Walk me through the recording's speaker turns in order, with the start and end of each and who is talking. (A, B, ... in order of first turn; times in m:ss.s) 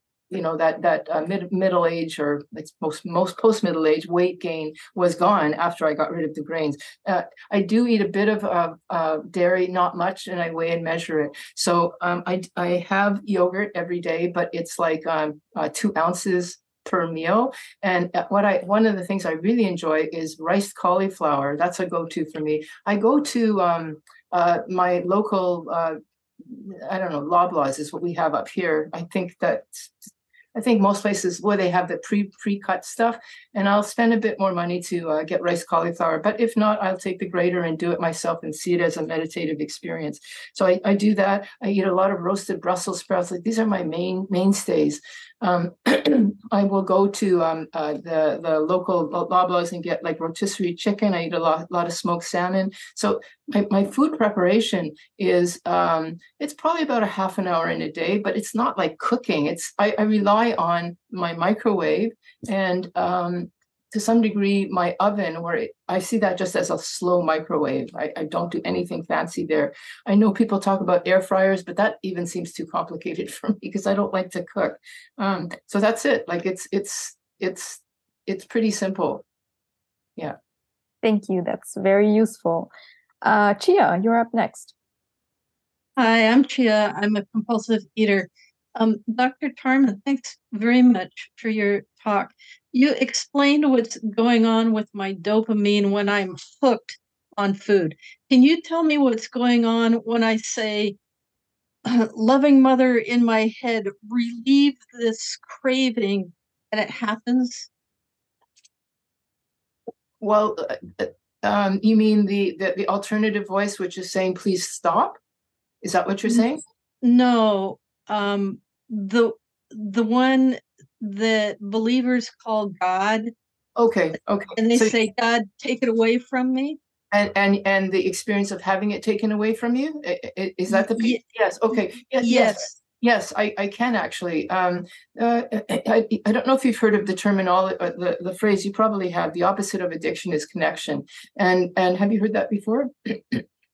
0:00.3-0:29.9 A
0:30.6-1:19.2 A
1:21.0-1:22.7 B
1:23.2-1:24.7 B
1:26.0-1:41.0 C
1:41.9-1:47.7 C
1:50.2-1:55.2 A
1:55.8-1:56.6 A
1:57.0-2:03.3 C
2:03.8-2:04.9 A
2:04.6-2:06.8 C
2:07.1-2:23.4 A
2:10.7-2:11.2 C
2:12.2-2:12.8 C